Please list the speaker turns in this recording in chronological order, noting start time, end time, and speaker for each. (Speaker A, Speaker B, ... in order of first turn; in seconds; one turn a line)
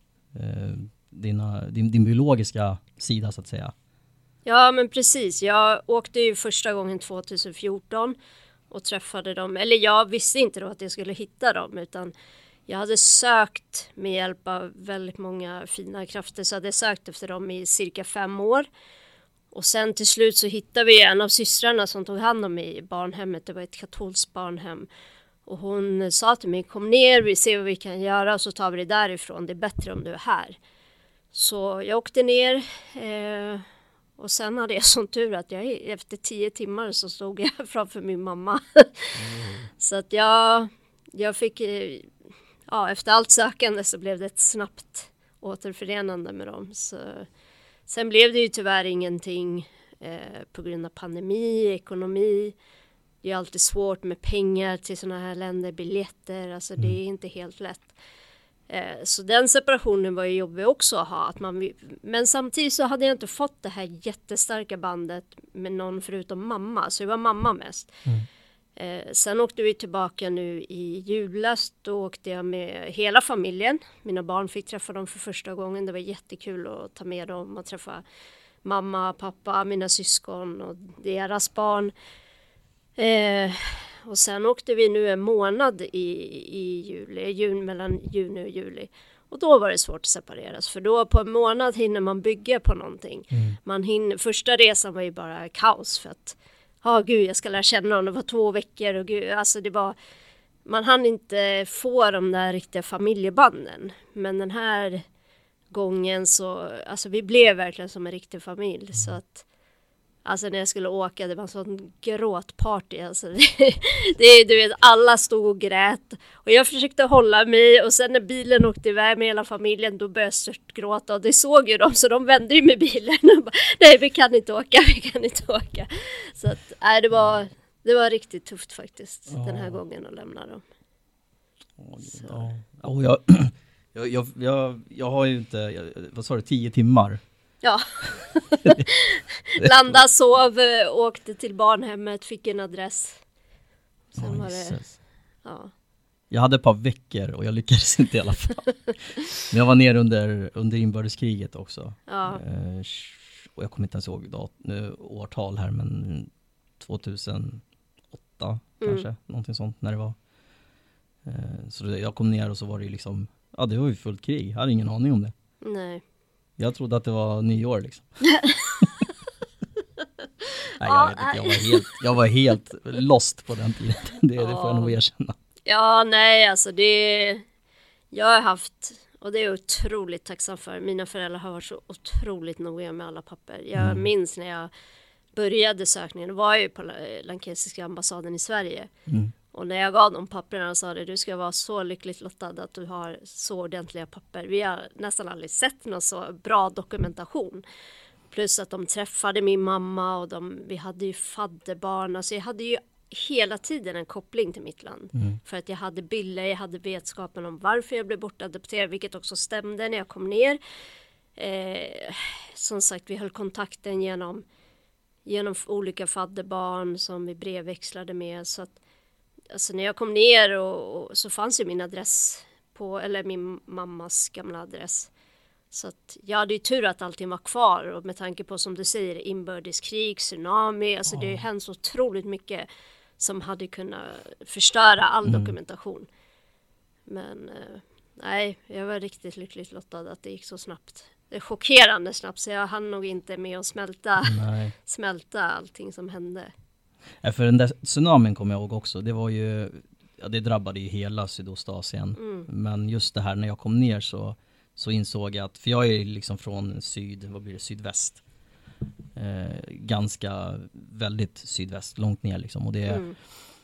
Speaker A: 0.3-3.7
Speaker B: 4.4-8.2
Speaker B: 8.7-12.1
Speaker B: 12.7-18.7
Speaker B: 19.5-24.9
Speaker B: 25.4-30.6
Speaker B: 31.3-33.6
Speaker B: 34.2-39.1
Speaker A: 39.1-39.7
Speaker B: 39.8-42.1
Speaker B: 42.7-47.3
Speaker B: 47.9-52.5
Speaker B: 53.2-57.9
Speaker B: 58.7-67.9
Speaker B: 68.8-78.0
Speaker B: 78.6-81.9
Speaker B: 83.0-100.0
Speaker A: 93.3-93.6
Speaker B: 100.6-105.0
Speaker B: 105.7-109.4
Speaker B: 110.2-130.6
Speaker A: 129.3-129.8
Speaker A: 131.8-137.2
Speaker B: 132.1-132.4
Speaker B: 137.6-143.2
Speaker A: 139.6-140.0
Speaker B: 144.1-144.8
Speaker A: 144.2-144.9
Speaker B: 145.4-145.7
Speaker A: 146.3-148.8
Speaker A: 149.3-157.6
Speaker B: 152.1-152.4
Speaker A: 158.3-160.2
Speaker B: 158.8-159.1
Speaker A: 161.2-165.3
Speaker B: 165.6-166.0
Speaker A: 166.6-168.2
Speaker B: 168.2-168.9
Speaker B: 170.4-171.8
Speaker A: 170.8-175.3
Speaker B: 174.4-174.9
Speaker B: 175.7-177.4
Speaker B: 178.1-184.7
Speaker A: 183.8-184.1
Speaker B: 185.3-188.9
Speaker A: 189.1-189.3
Speaker B: 189.5-197.6
Speaker B: 198.3-210.6
Speaker B: 211.3-214.4
Speaker B: 215.2-218.8
Speaker B: 219.5-225.1
Speaker B: 225.7-232.7
Speaker A: 231.1-231.4
Speaker B: 233.2-236.1
Speaker A: 235.2-235.5
Speaker B: 237.1-246.5
Speaker A: 244.2-244.7
Speaker A: 247.2-258.2
Speaker B: 252.2-252.5
Speaker A: 259.1-263.1
Speaker B: 262.9-263.1